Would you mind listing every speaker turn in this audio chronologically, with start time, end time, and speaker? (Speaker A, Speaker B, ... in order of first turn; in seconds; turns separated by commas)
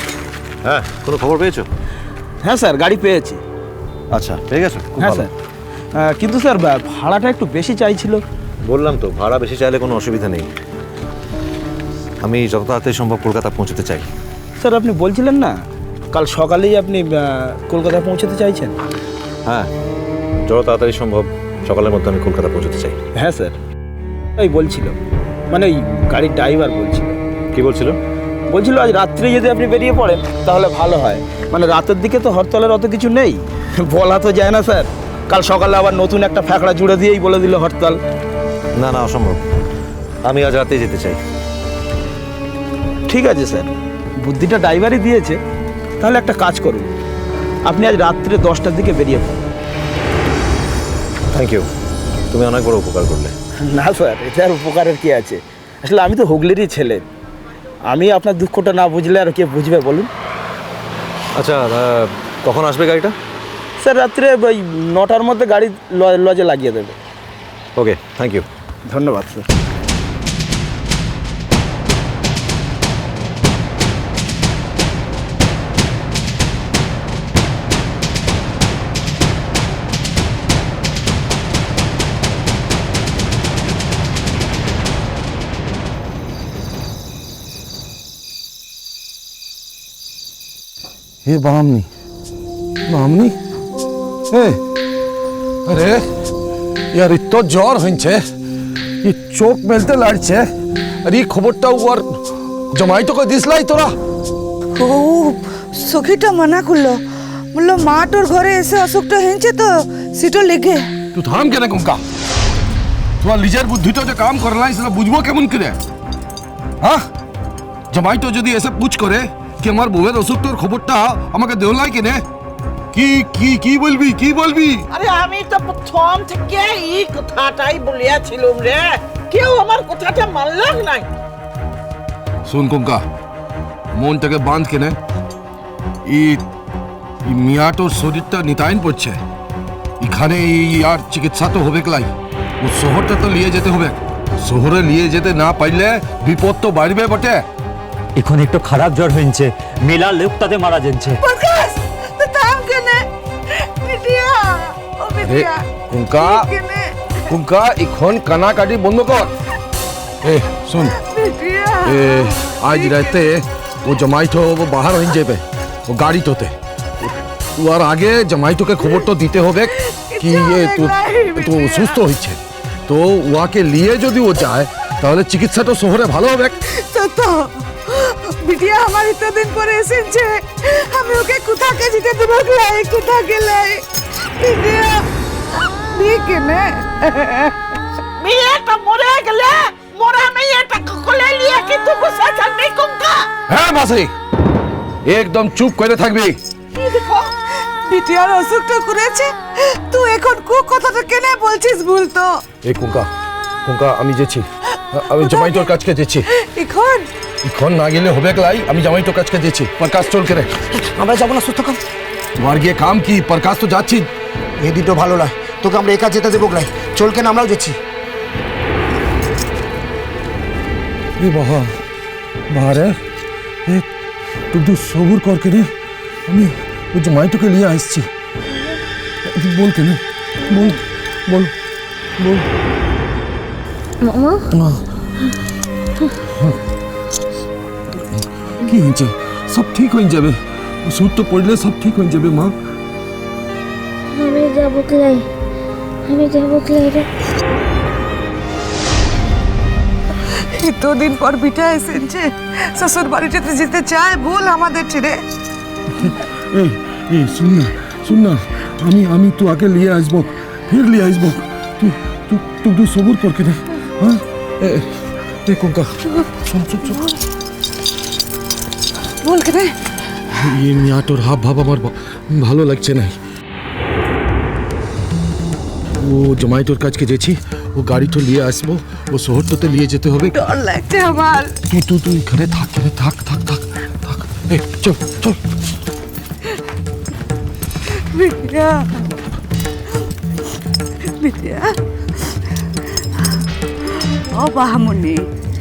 Speaker A: 0.6-1.7, Speaker B: 2.4-3.4, Speaker A: 4.1-5.3, Speaker B: 5.0-5.3, Speaker B: 5.9-8.2, Speaker A: 8.7-10.5, Speaker A: 12.2-14.1, Speaker B: 14.6-15.6, Speaker B: 16.1-18.7, Speaker A: 19.4-19.7, Speaker A: 20.4-23.0, Speaker B: 23.1-23.6, Speaker B: 24.4-25.0, Speaker B: 25.5-27.2, Speaker A: 27.5-28.0, Speaker B: 28.5-38.0, Speaker A: 38.8-39.4, Speaker A: 40.2-41.2, Speaker B: 43.1-45.4, Speaker B: 46.0-46.9, Speaker B: 47.6-49.4, Speaker A: 51.3-51.7, Speaker A: 52.3-53.3, Speaker B: 53.6-57.0, Speaker B: 57.8-60.1, Speaker A: 61.4-63.1, Speaker B: 63.8-67.0, Speaker A: 67.8-68.5, Speaker B: 68.9-69.4, Speaker C: 91.2-91.9, Speaker C: 92.9-93.3, Speaker C: 94.3-94.6, Speaker C: 95.7-96.0, Speaker C: 96.9-98.2, Speaker C: 99.0-100.4, Speaker C: 101.0-102.1, Speaker C: 102.7-104.0, Speaker D: 104.8-107.0, Speaker D: 107.5-110.9, Speaker C: 111.1-112.0, Speaker C: 113.2-115.8, Speaker C: 117.9-122.2, Speaker C: 122.9-124.9, Speaker B: 124.9-131.1, Speaker E: 127.2-128.6, Speaker E: 129.3-129.7, Speaker E: 130.6-130.9, Speaker C: 132.4-133.0, Speaker C: 133.9-135.0, Speaker C: 136.1-136.4, Speaker C: 137.2-139.2, Speaker C: 140.0-147.4, Speaker F: 148.2-151.2, Speaker D: 151.2-157.1, Speaker C: 155.2-156.5, Speaker C: 157.3-159.3, Speaker C: 160.2-160.9, Speaker D: 160.8-163.2, Speaker C: 161.8-176.6, Speaker D: 169.8-172.0, Speaker D: 176.6-185.1, Speaker D: 185.9-187.6, Speaker E: 188.2-193.3, Speaker C: 193.5-194.1, Speaker C: 195.0-196.4, Speaker D: 196.8-197.3, Speaker D: 197.8-202.4, Speaker C: 202.6-203.1, Speaker C: 203.6-206.2, Speaker D: 205.1-205.7, Speaker D: 206.3-207.1, Speaker C: 207.4-210.5, Speaker G: 210.8-211.8, Speaker C: 212.4-214.1, Speaker G: 214.6-217.8, Speaker C: 221.2-221.7, Speaker C: 222.5-222.9, Speaker C: 224.5-225.7, Speaker C: 226.3-228.1, Speaker C: 229.2-231.5, Speaker C: 232.2-232.5, Speaker H: 234.0-234.4, Speaker C: 234.5-234.8, Speaker C: 238.6-242.6, Speaker H: 244.1-245.3, Speaker H: 246.0-247.1, Speaker D: 250.2-255.2, Speaker C: 256.0-264.9, Speaker C: 265.4-265.9, Speaker C: 266.4-267.0, Speaker D: 269.2-269.7, Speaker C: 270.3-273.1, Speaker C: 276.0-280.3, Speaker D: 280.3-281.6, Speaker C: 281.7-285.4, Speaker D: 287.9-289.1, Speaker D: 291.2-291.8, Speaker D: 294.0-295.3